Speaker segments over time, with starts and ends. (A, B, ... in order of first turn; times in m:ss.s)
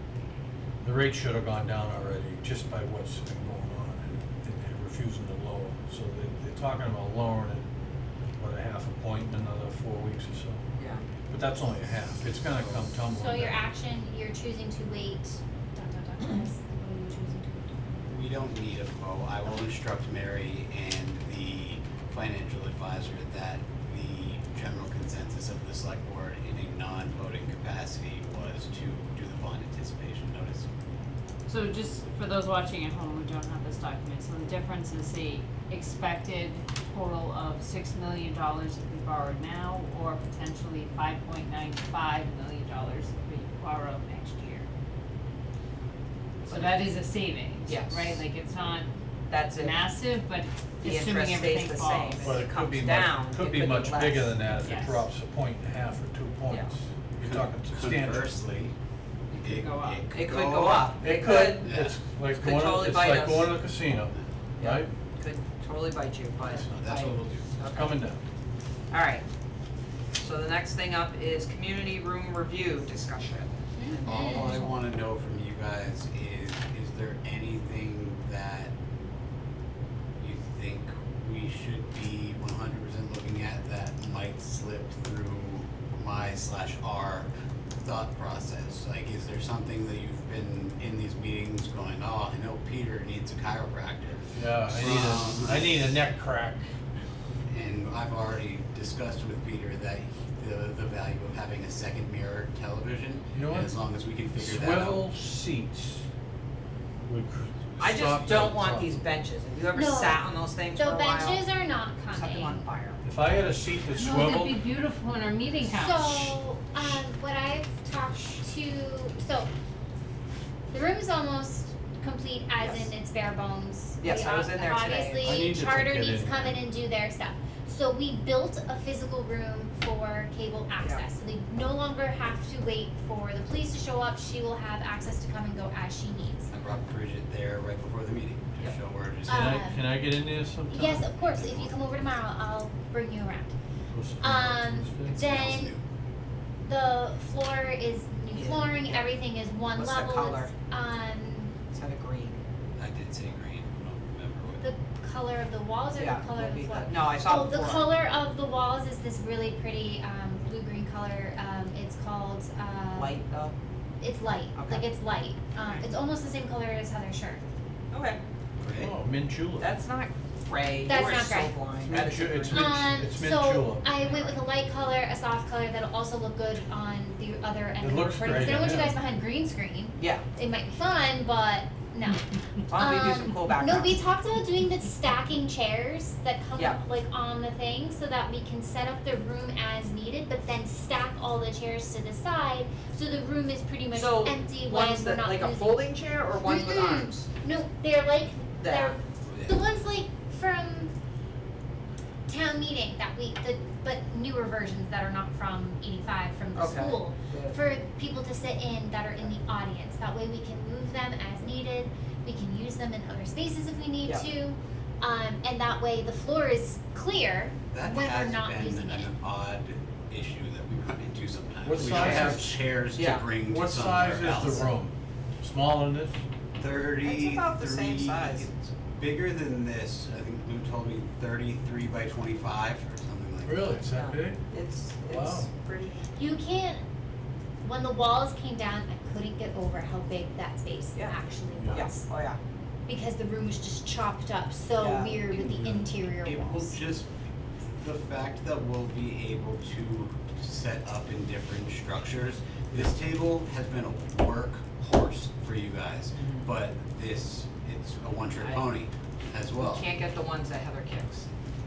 0:00.8-0:07.6 A
0:08.4-0:10.6 A
0:10.8-0:11.0 B
0:11.3-0:13.6 A
0:12.5-0:12.9 C
0:13.1-0:18.1 D
0:18.1-0:30.7 C
0:31.5-0:44.7 E
0:46.4-0:48.9 E
0:46.5-0:46.7 B
0:47.6-0:48.2 B
0:49.3-0:49.8 B
0:49.6-0:52.5 E
0:50.8-0:54.4 B
0:52.2-0:58.4 A
0:54.6-0:55.0 E
0:57.2-0:58.7 C
0:59.3-1:00.1 E
0:59.4-1:01.0 C
1:00.1-1:01.8 B
1:01.0-1:04.9 A
1:01.6-1:02.0 C
1:02.3-1:03.6 B
1:03.9-1:04.2 C
1:04.6-1:07.9 B
1:06.6-1:07.5 C
1:07.7-1:08.2 A
1:08.9-1:09.2 B
1:10.2-1:14.8 B
1:13.8-1:14.6 D
1:14.0-1:18.7 C
1:20.2-1:27.3 C
1:27.8-1:35.8 C
1:34.3-1:36.7 A
1:37.5-1:45.1 C
1:43.3-1:43.8 A
1:44.4-1:46.1 A
1:47.0-1:49.0 A
1:47.7-1:48.5 C
1:47.8-1:51.4 B
1:49.7-1:52.7 D
1:52.1-1:53.0 B
1:53.0-1:54.5 A
1:54.0-1:56.4 E
1:55.7-1:59.5 D
2:00.7-2:16.5 D
2:02.6-2:02.9 B
2:04.0-2:05.4 B
2:05.2-2:06.6 A
2:16.5-2:19.6 C
2:19.3-2:19.9 D
2:19.3-2:21.1 A
2:20.7-2:23.5 D
2:21.3-2:21.7 C
2:23.9-2:25.2 A
2:24.2-2:25.7 D
2:25.1-2:25.8 C
2:26.6-2:31.6 D
2:28.3-2:29.0 B
2:29.8-2:30.5 B
2:31.7-2:32.4 B
2:32.8-2:34.7 C
2:34.6-2:43.2 D
2:36.0-2:38.0 B
2:43.0-2:43.5 B
2:44.0-2:47.4 D
2:44.6-2:44.8 B
2:47.9-2:48.2 B
2:48.6-2:48.9 C
2:48.8-2:49.7 A
2:49.6-2:52.8 B
2:50.8-2:51.5 D
2:51.8-2:54.0 A
2:52.5-3:15.8 D
2:57.8-2:59.0 A
3:00.0-3:00.2 B
3:02.7-3:04.0 B
3:13.9-3:17.3 B
3:16.4-3:20.9 D
3:18.6-3:19.0 B
3:22.3-3:39.1 D
3:26.6-3:27.6 B
3:37.7-3:44.7 C
3:41.6-3:42.6 A
3:41.9-3:42.3 B
3:43.0-3:43.3 B
3:43.5-3:46.2 A
3:46.6-3:53.8 C
3:47.0-3:48.5 B
3:53.4-3:54.4 A
3:53.9-3:56.1 B
3:55.1-3:55.5 A
3:56.2-3:56.8 D
3:57.6-4:02.0 D
4:01.6-4:01.9 A
4:01.7-4:02.4 B
4:02.9-4:06.8 D
4:04.8-4:05.2 B
4:05.5-4:05.9 A
4:06.2-4:07.1 C
4:07.8-4:19.9 C
4:16.2-4:16.5 B
4:19.6-4:21.3 B